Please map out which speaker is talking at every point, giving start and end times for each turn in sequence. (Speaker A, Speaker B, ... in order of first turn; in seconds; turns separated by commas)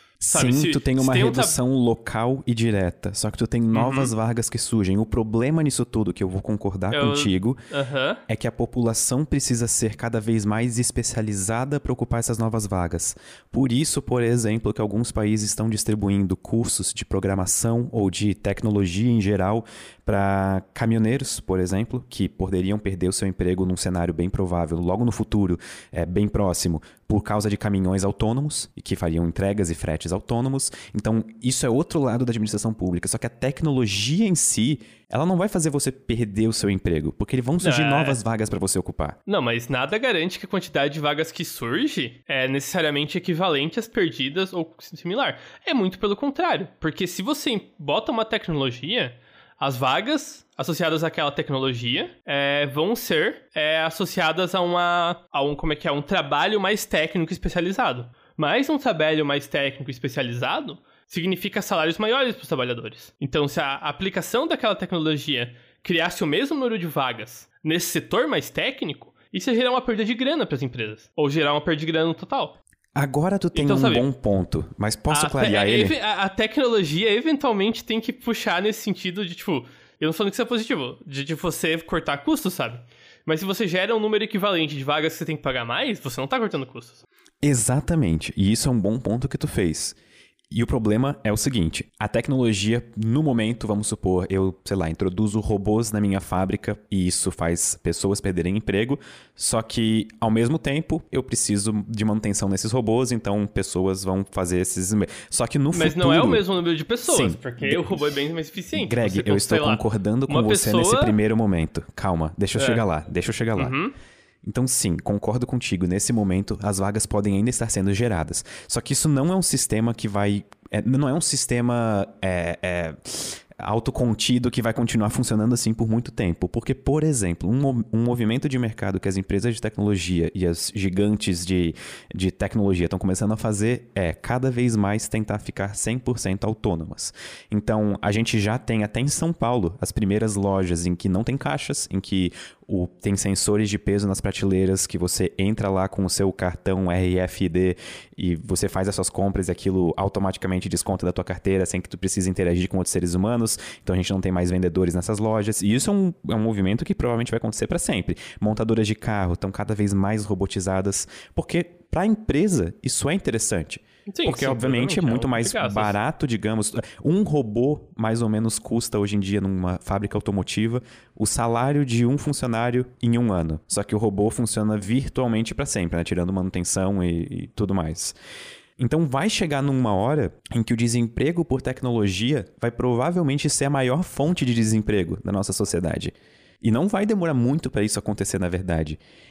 Speaker A: 0.2-7.6, Speaker B: 0.3-1.6, Speaker B: 3.7-4.1, Speaker B: 6.9-8.2, Speaker A: 8.3-39.2, Speaker B: 37.6-38.2, Speaker B: 39.3-72.6, Speaker A: 72.9-75.9, Speaker B: 73.5-74.0, Speaker B: 75.1-87.0, Speaker A: 87.4-90.0, Speaker A: 90.5-106.4, Speaker B: 105.7-111.2, Speaker A: 107.0-108.0, Speaker A: 108.8-113.7, Speaker B: 112.6-112.8, Speaker B: 113.5-113.9, Speaker A: 114.4-178.1, Speaker B: 164.1-165.9, Speaker A: 178.8-189.0